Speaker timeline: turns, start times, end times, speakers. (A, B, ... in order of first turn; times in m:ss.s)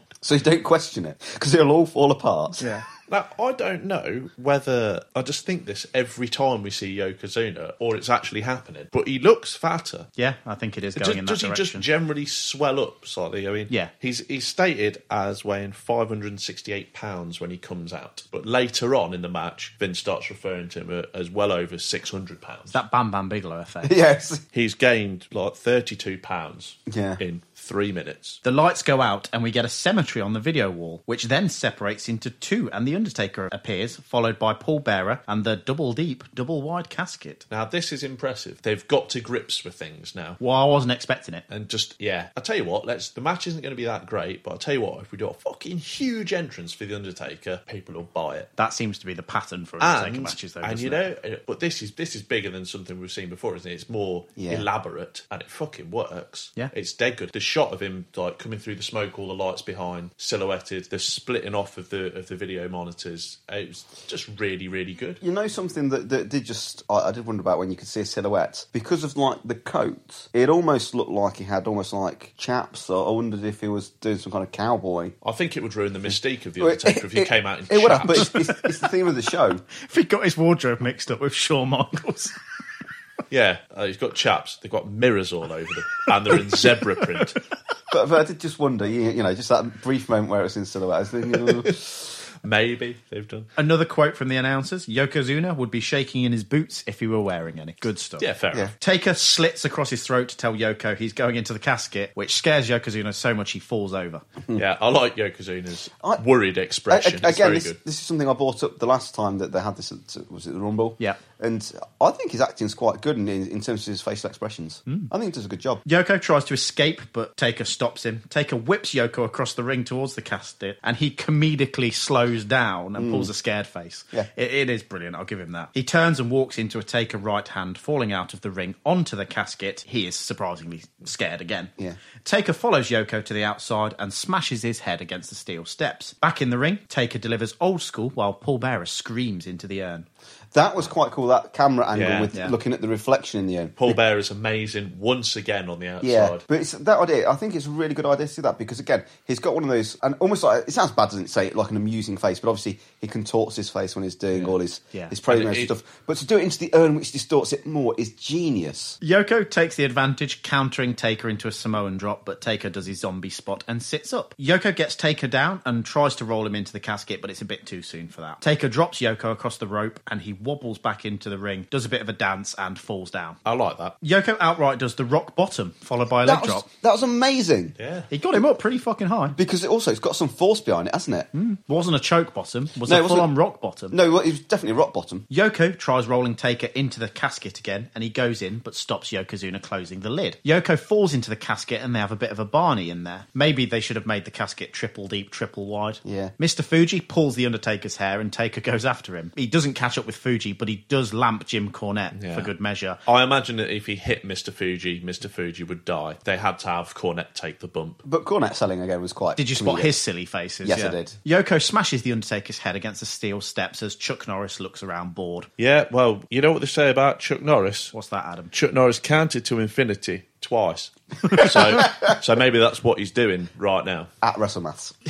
0:00.2-0:02.6 A
0:02.6-0:02.9 B
0:03.1-0:10.1 C
0:10.2-0:11.9 B
0:11.0-0:22.8 C
0:22.7-0:24.0 B
0:23.8-0:24.4 A
0:24.5-0:28.4 C
0:26.9-0:27.2 A
0:28.4-0:37.4 B
0:37.5-0:40.4 C
0:40.4-0:41.4 B
0:41.5-0:48.5 C
0:48.6-0:51.0 B
0:49.8-1:05.2 C
0:54.4-0:54.6 A
1:05.2-1:15.2 A
1:15.2-1:18.3 C
1:16.6-1:19.6 A
1:18.2-1:18.5 B
1:19.8-1:22.4 B
1:23.3-1:27.4 C
1:27.1-1:27.4 B
1:27.9-1:31.7 A
1:32.4-1:33.5 C
1:33.6-1:38.3 B
1:38.2-1:38.7 C
1:38.8-1:44.2 B
1:44.6-1:47.8 C
1:46.9-1:55.8 A
1:55.9-2:11.7 B
2:03.0-2:03.3 A
2:12.2-2:20.1 B
2:20.5-2:24.0 A
2:21.9-2:22.3 C
2:23.8-2:26.4 C
2:26.0-2:39.0 A
2:34.4-2:35.1 B
2:35.3-2:35.7 C
2:39.0-2:53.4 B
2:53.4-2:54.0 C
2:54.0-2:56.7 B
2:56.2-2:57.8 A
2:57.8-2:58.1 C
2:58.1-2:59.4 B
2:59.4-3:01.3 A
3:01.3-3:04.0 B
3:02.9-3:03.3 A
3:03.9-3:05.3 A
3:05.3-3:23.0 B
3:16.0-3:16.3 A
3:22.1-3:22.5 C
3:23.1-3:28.0 C
3:28.0-3:29.9 A
3:29.4-3:35.5 B
3:30.6-3:31.2 A
3:35.6-3:37.9 C
3:37.9-3:38.5 B
3:38.5-3:44.1 C
3:41.3-3:41.8 B
3:44.2-3:45.0 A